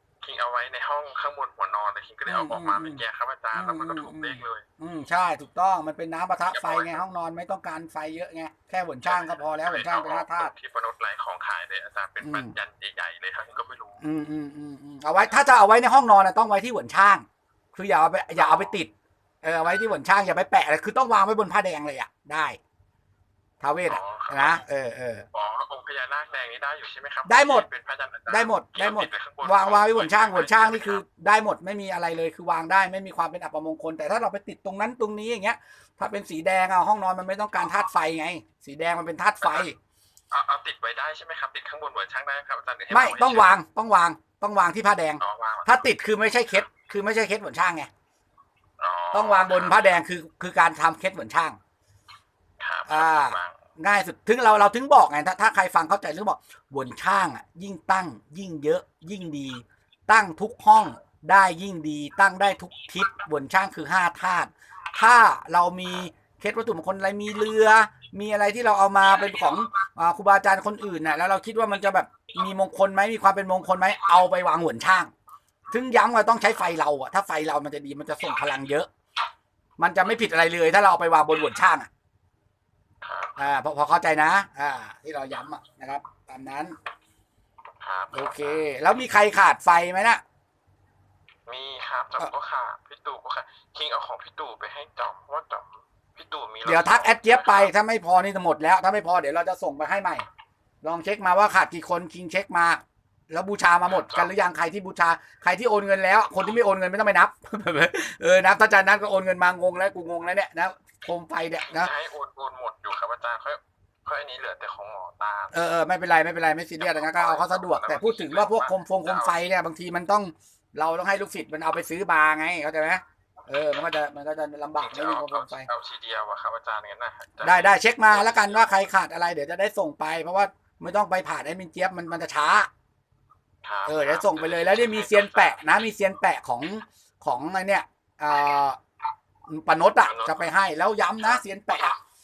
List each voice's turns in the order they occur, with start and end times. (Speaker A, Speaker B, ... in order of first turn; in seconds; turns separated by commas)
Speaker A: 0.2-4.7, Speaker B: 2.2-3.0, Speaker B: 3.5-10.5, Speaker A: 6.5-7.0, Speaker A: 9.0-14.0, Speaker B: 12.2-12.5, Speaker B: 14.0-18.9, Speaker A: 18.3-18.7, Speaker B: 19.4-22.6, Speaker B: 23.6-25.2, Speaker A: 23.9-24.6, Speaker A: 25.3-31.0, Speaker B: 27.2-27.7, Speaker B: 28.3-39.8, Speaker A: 39.4-39.7, Speaker A: 40.3-43.5, Speaker B: 42.9-47.9, Speaker A: 45.2-45.9, Speaker A: 48.8-49.9, Speaker B: 49.1-51.6, Speaker A: 52.6-53.6, Speaker B: 52.9-75.1, Speaker B: 75.7-78.9, Speaker B: 79.8-81.9, Speaker A: 83.0-83.4, Speaker B: 83.4-86.8, Speaker A: 87.8-88.6, Speaker B: 88.1-90.2, Speaker A: 91.5-97.7, Speaker B: 96.6-100.2, Speaker B: 100.8-111.9, Speaker A: 103.8-104.3, Speaker A: 111.7-115.6, Speaker B: 115.5-125.7, Speaker A: 116.8-119.5, Speaker A: 124.8-128.7, Speaker B: 127.4-132.7, Speaker A: 133.6-135.6, Speaker B: 133.9-138.8, Speaker B: 139.5-142.0, Speaker A: 140.0-140.5